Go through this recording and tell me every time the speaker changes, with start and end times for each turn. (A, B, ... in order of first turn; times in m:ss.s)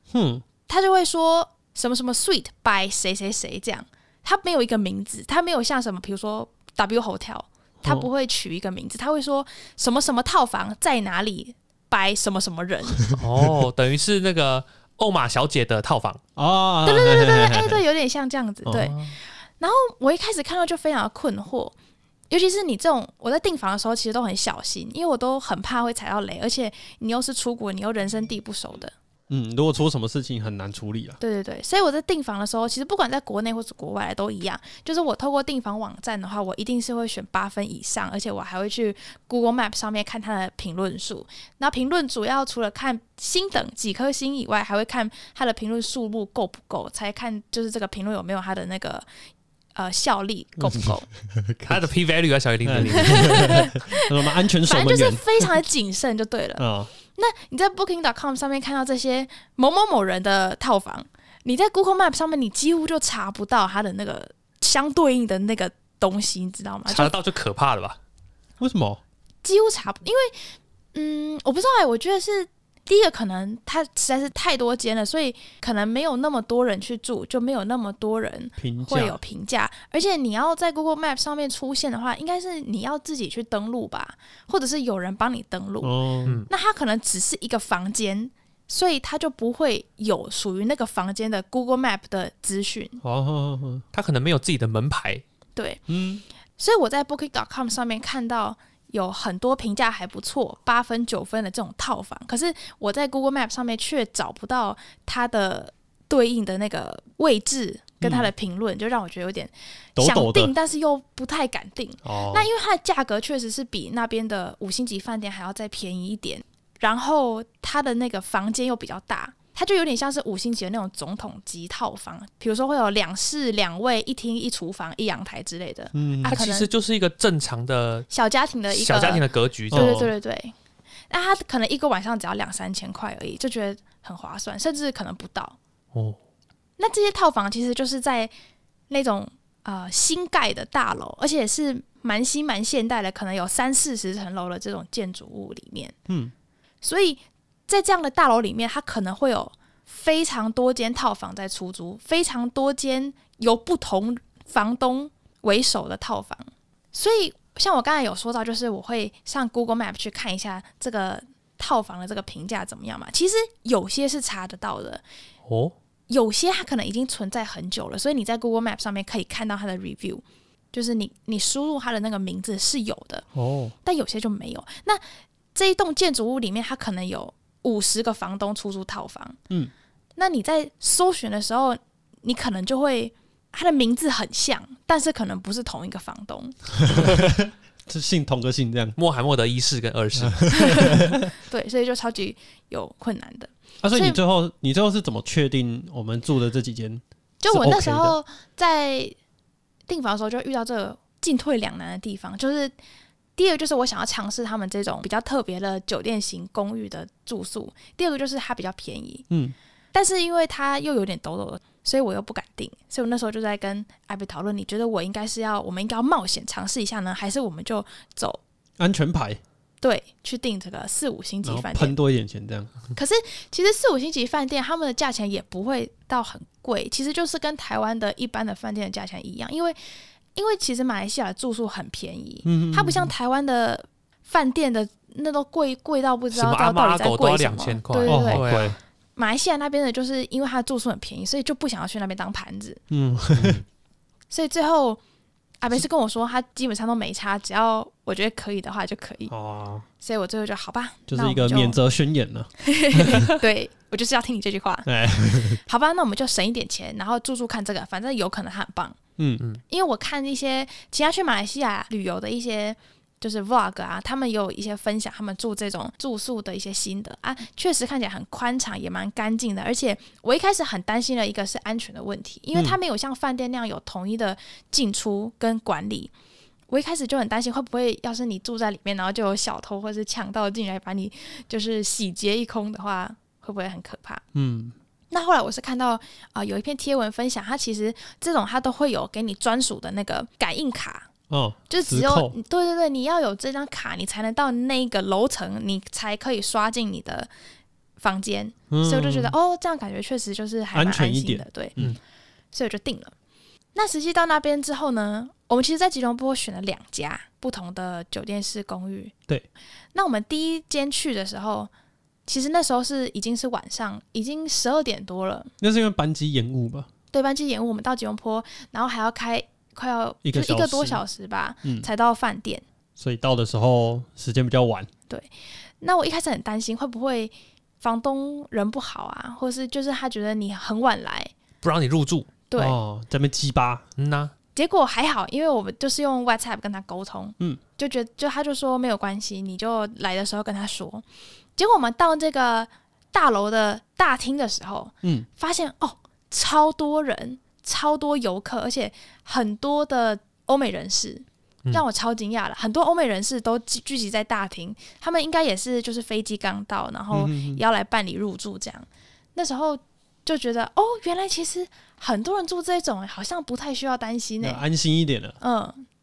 0:00.1-0:00.4 A
0:00.7-0:13.0 B
0:07.8-0:08.1 A
0:13.1-0:16.2 C
0:16.4-0:17.8 A
0:16.8-0:21.7 B
0:18.7-0:19.2 C
0:22.3-0:28.9 B
0:29.3-0:31.2 A
0:31.2-0:49.0 B
0:49.7-0:51.1 B
0:50.6-0:51.8 A
0:51.6-0:53.6 C
0:52.6-0:55.5 A
0:53.1-0:54.1 B
0:54.6-1:07.1 B
0:56.6-0:56.9 A
1:06.9-1:08.0 C
1:08.6-1:09.0 A
1:09.4-1:10.4 B
1:10.9-1:26.0 B
1:18.6-1:19.2 A
1:25.8-1:26.4 A
1:26.2-1:26.5 C
1:26.5-1:33.0 B
1:33.0-1:33.8 A
1:33.9-1:35.2 C
1:35.6-1:35.8 B
1:35.9-1:36.2 A
1:36.6-2:06.7 B
1:48.0-1:48.3 A
1:50.0-1:50.5 A
1:52.0-1:52.5 A
2:05.9-2:06.4 A
2:06.3-2:08.1 C
2:08.1-2:10.5 B
2:08.7-2:10.0 C
2:09.7-2:10.1 A
2:11.1-2:15.6 B
2:16.8-2:18.3 B
2:18.9-2:25.9 B
2:26.1-2:26.3 A
2:26.8-2:45.0 B
2:45.5-2:45.7 C
2:46.1-2:53.2 B
2:53.3-2:53.7 A
2:53.8-2:55.0 B
2:55.5-2:59.4 B
3:00.2-3:06.7 B
3:06.8-3:09.0 A
3:09.0-3:10.6 C
3:10.2-3:11.3 A
3:10.5-3:14.2 B
3:13.8-3:18.2 A
3:17.4-3:19.1 B
3:19.9-3:22.7 B
3:23.4-3:29.2 B
3:29.9-3:38.4 B
3:38.8-3:39.4 A
3:39.8-3:42.0 B
3:41.4-3:42.7 A
3:42.9-3:49.8 B
3:50.3-3:58.5 B
3:52.4-3:53.1 A
3:56.3-3:58.8 C
3:58.0-3:58.8 A
3:59.2-4:02.8 B
4:02.9-4:03.6 A
4:03.3-4:03.6 C
4:04.3-4:05.0 B
4:05.6-4:09.3 B
4:09.3-4:09.8 A
4:10.0-4:11.8 B
4:11.1-4:13.3 A
4:12.6-4:19.0 B
4:14.8-4:15.6 A
4:19.2-4:19.4 A
4:19.7-4:36.1 B
4:32.5-4:32.8 A
4:36.7-4:44.2 B
4:44.3-4:44.7 A
4:45.1-4:51.1 B
4:51.3-4:52.4 A
4:51.7-4:57.3 B
4:58.0-5:01.8 B
4:58.7-4:59.3 A
5:00.7-5:02.0 A
5:02.5-5:03.1 B
5:03.7-5:09.1 B
5:09.9-5:11.7 B
5:12.3-5:15.5 B
5:15.6-5:16.9 A
5:17.1-5:22.6 B
5:20.2-5:21.0 A
5:21.6-5:21.9 A
5:23.0-5:24.9 A
5:25.8-5:31.3 B
5:31.6-5:32.3 C
5:32.5-5:32.8 B
5:32.6-5:33.8 A
5:34.0-5:34.3 C
5:34.5-5:41.0 B
5:41.6-6:04.6 B
5:57.1-5:57.6 A
6:04.4-6:05.4 A
6:05.4-6:05.8 B